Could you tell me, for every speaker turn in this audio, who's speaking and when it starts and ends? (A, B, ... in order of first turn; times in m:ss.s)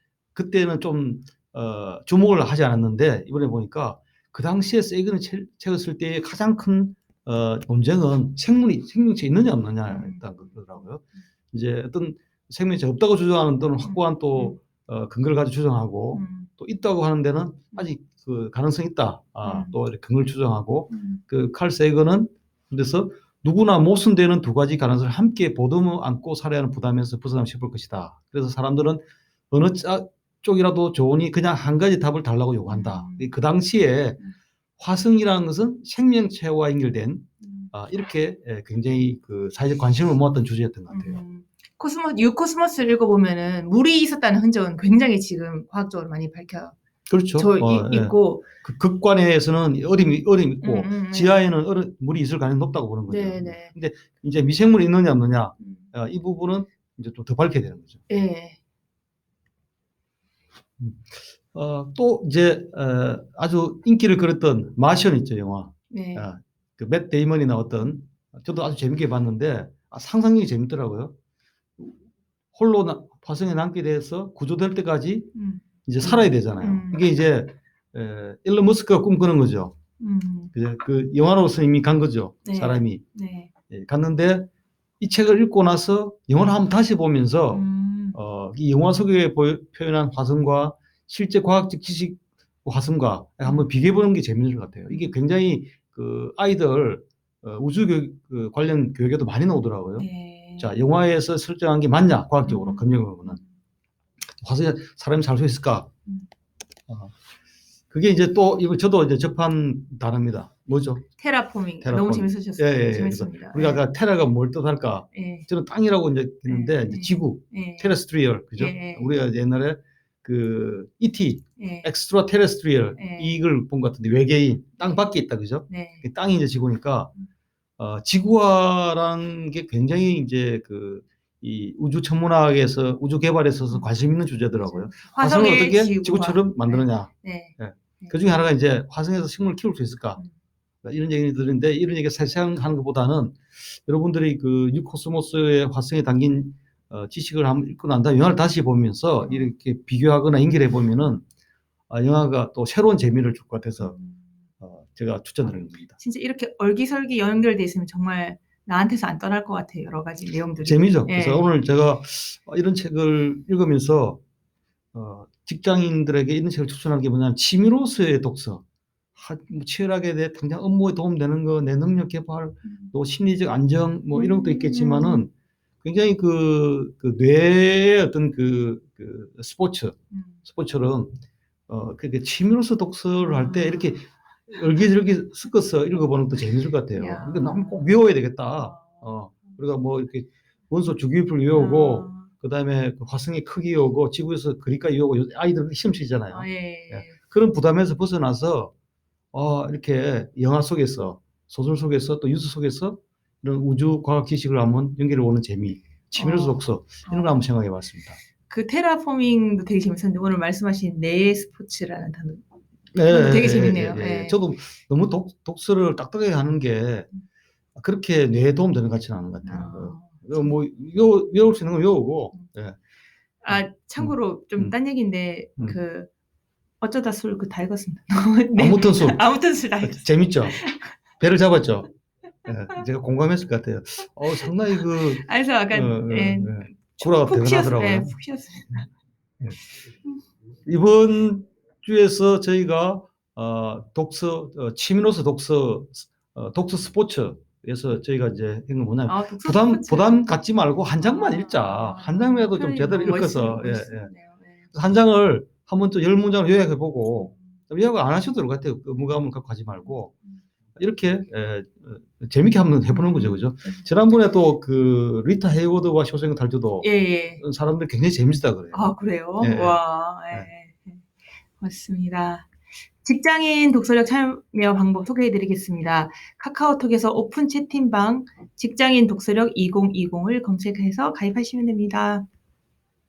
0:00.4-0:34.2 A
0:09.9-0:10.2 B
0:13.8-0:14.6 B
0:16.1-0:16.5 B
0:19.4-0:19.8 B
0:20.9-0:21.2 B
0:32.7-0:33.3 B
0:34.8-0:41.2 A
0:37.4-0:37.7 B
0:40.9-0:46.8 B
0:47.1-0:58.0 A
0:47.4-0:48.5 B
0:50.6-0:51.5 B
0:53.1-0:53.7 B
0:55.6-0:55.9 B
0:58.1-0:58.6 B
1:00.8-1:11.2 A
1:05.9-1:06.3 B
1:12.5-1:15.3 A
1:15.4-1:17.0 B
1:15.9-1:19.8 A
1:20.0-1:20.5 B
1:20.5-1:23.0 A
1:22.4-1:23.5 B
1:23.7-1:24.5 A
1:25.0-1:40.1 A
1:27.5-1:28.2 B
1:34.9-1:35.1 B
1:40.0-1:40.7 B
1:40.6-1:43.4 A
1:42.4-1:43.5 B
1:44.4-1:45.9 A
1:46.9-1:47.1 A
1:47.9-1:51.1 A
1:51.2-1:53.8 B
1:51.8-2:07.1 A
1:55.1-1:55.5 B
1:56.5-1:58.0 B
1:58.6-1:59.1 B
2:01.6-2:01.9 B
2:03.0-2:03.4 B
2:05.7-2:06.0 B
2:07.8-2:20.2 A
2:14.6-2:18.1 B
2:20.8-2:31.2 A
2:29.3-2:29.5 B
2:31.9-2:34.0 A
2:33.8-2:34.2 B
2:34.6-2:36.0 A
2:36.0-2:41.5 B
2:40.6-2:44.2 A
2:44.9-2:48.6 A
2:49.2-2:55.3 A
2:52.7-2:52.9 B
2:54.1-2:55.3 B
2:55.8-3:18.7 A
3:00.1-3:00.4 B
3:03.2-3:03.9 B
3:07.0-3:07.9 B
3:11.5-3:12.3 B
3:16.3-3:17.2 B
3:19.3-3:28.2 A
3:26.2-3:27.4 B
3:28.5-3:32.4 B
3:32.9-3:37.1 A
3:33.1-3:34.4 B
3:37.8-3:42.8 A
3:39.4-3:40.5 B
3:43.4-3:46.1 B
3:43.5-3:44.7 A
3:46.8-3:50.9 B
3:48.6-3:49.2 A
3:49.8-3:50.6 A
3:51.2-3:51.9 A
3:52.5-3:58.2 A
3:54.8-3:58.9 B
4:00.7-4:14.1 A
4:09.1-4:10.3 B
4:11.0-4:14.6 B
4:14.7-4:20.2 A
4:17.2-4:17.5 B
4:20.8-4:26.9 A
4:22.9-4:23.8 B
4:26.8-4:27.4 B
4:27.4-4:29.8 A
4:28.7-4:31.1 B
4:31.6-4:32.5 B
4:33.0-4:42.3 B